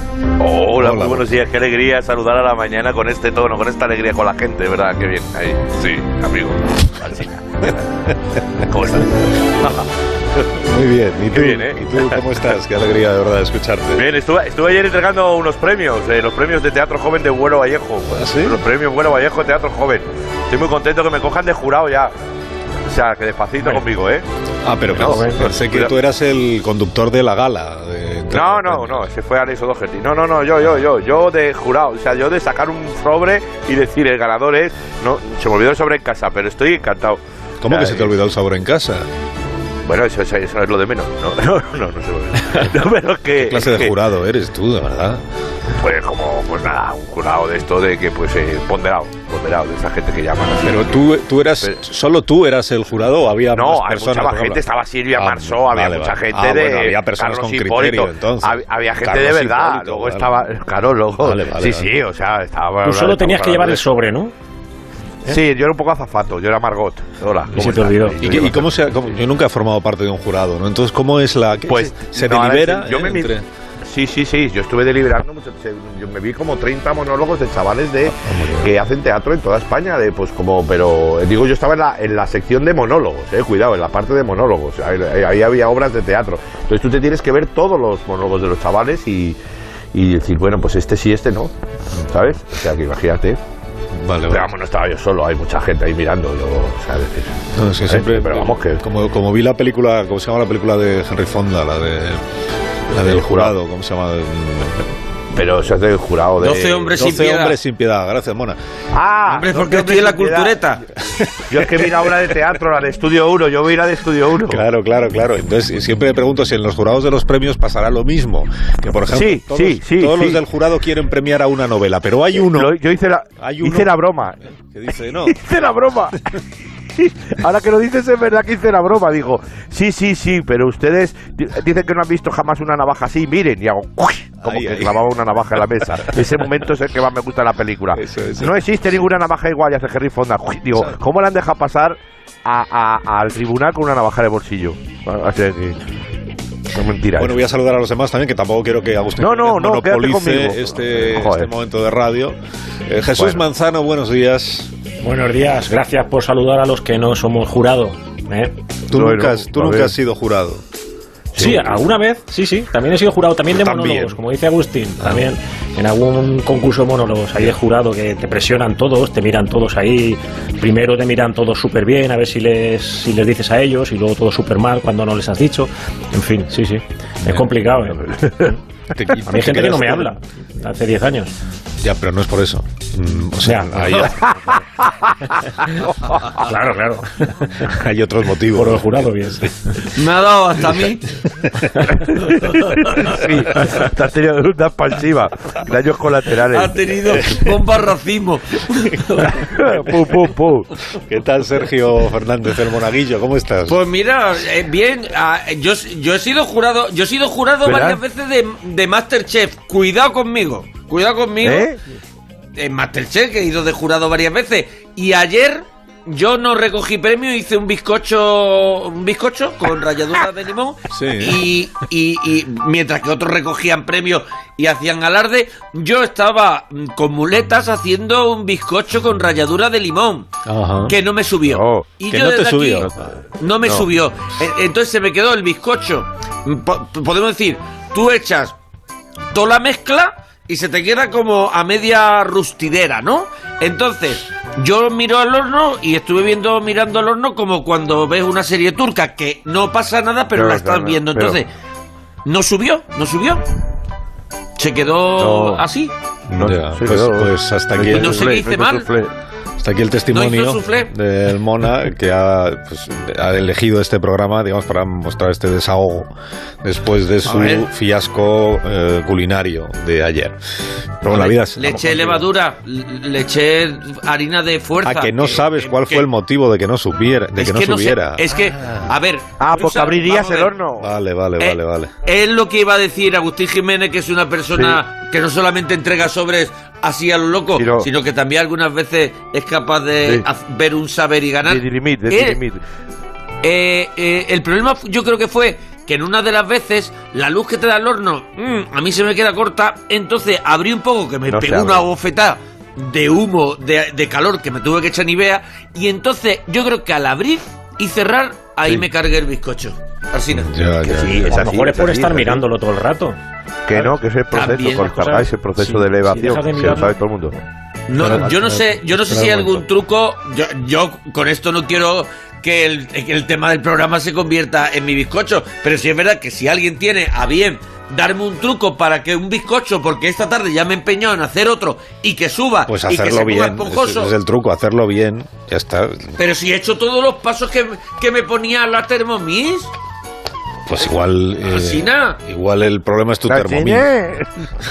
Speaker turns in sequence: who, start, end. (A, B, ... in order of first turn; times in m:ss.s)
0:00.4-0:07.8 A
0:00.8-0:01.3 B
0:08.6-0:09.9 A
0:10.6-0:14.0 B
0:11.3-0:12.2 A
0:13.9-0:22.1 A
0:18.1-0:18.6 B
0:22.9-0:24.2 A
0:24.6-0:29.1 B
0:25.0-0:25.9 A
0:25.0-0:25.4 C
0:28.3-0:38.1 A
0:37.6-0:39.1 B
0:39.8-0:43.9 A
0:43.4-0:45.2 B
0:45.8-0:51.0 A
0:50.6-0:54.6 B
0:53.5-1:03.9 A
0:55.1-1:00.4 B
1:01.2-1:01.9 B
1:02.8-1:04.3 C
1:05.2-1:08.7 A
1:07.5-1:08.4 C
1:08.2-1:13.5 B
1:11.7-1:13.3 A
1:13.8-1:29.4 A
1:18.1-1:18.7 B
1:29.9-1:31.5 A
1:32.0-1:33.4 A
1:33.9-1:34.5 B
1:34.3-1:38.8 A
1:37.5-1:42.2 B
1:42.9-1:44.9 B
1:42.9-1:43.5 A
1:45.3-1:47.1 A
1:46.4-1:47.6 D
1:46.9-1:48.6 B
1:48.9-1:50.6 A
1:49.3-1:50.8 D
1:51.1-1:51.7 B
1:51.5-1:54.6 A
1:54.4-2:02.7 B
1:59.1-2:00.4 A
2:02.4-2:04.4 A
2:03.4-2:03.9 B
2:04.6-2:05.4 B
2:05.1-2:06.2 A
2:07.0-2:25.8 A
2:14.4-2:15.0 B
2:17.9-2:18.7 B
2:26.7-2:27.3 A
2:27.2-2:34.7 B
2:29.2-2:31.5 A
2:33.1-2:33.4 A
2:35.0-2:38.5 C
2:38.9-2:40.6 B
2:38.9-2:39.9 A
2:41.3-2:41.8 A
2:41.4-2:58.5 C
2:43.5-2:44.2 B
2:45.0-2:45.3 B
2:58.0-2:58.5 A
2:58.9-3:00.1 B
2:59.2-3:01.3 C
3:01.8-3:04.2 B
3:03.4-3:04.3 C
3:05.7-3:06.2 A
3:06.4-3:07.7 C
3:07.6-3:09.4 B
3:08.5-3:09.7 C
3:09.9-3:11.1 D
3:11.9-3:16.8 A
3:16.5-3:19.4 D
3:17.1-3:17.5 B
3:19.4-3:20.7 A
3:20.9-3:23.8 B
3:23.7-3:31.7 D
3:27.6-3:28.0 A
3:31.4-3:31.8 A
3:32.6-3:50.3 D
3:40.9-3:41.4 B
3:50.4-3:51.0 B
3:50.9-3:52.9 D
3:51.4-3:51.9 A
3:52.1-3:53.0 B
3:53.4-3:58.6 D
3:59.3-4:11.5 D
4:10.3-4:11.4 A
4:12.2-4:13.4 D
4:14.6-4:15.9 D
4:15.2-4:15.6 A
4:16.3-4:18.2 B
4:16.4-4:19.1 A
4:17.9-4:18.9 D
4:19.6-4:26.1 B
4:20.1-4:20.9 D
4:26.6-4:30.4 B
4:27.2-4:27.7 D
4:31.0-4:32.1 B
4:31.1-4:36.1 D
4:31.8-4:32.2 C
4:34.8-4:38.2 B
4:37.4-4:40.5 D
4:39.4-4:40.9 A
4:40.8-4:41.9 B
4:41.4-4:52.4 D
4:47.6-4:47.9 A
4:51.4-4:52.6 A
4:53.4-5:10.5 D
5:01.3-5:01.8 A
5:10.3-5:11.2 B
5:10.9-5:12.4 A
5:10.9-5:13.2 C
5:13.7-5:17.4 A
5:14.3-5:15.2 D
5:15.6-5:16.9 C
5:16.6-5:16.8 B
5:17.9-5:34.1 D
5:18.0-5:19.6 B
5:32.7-5:36.2 B
5:36.2-5:39.7 D
5:40.7-5:43.9 B
5:41.4-5:42.2 D
5:43.3-5:44.3 A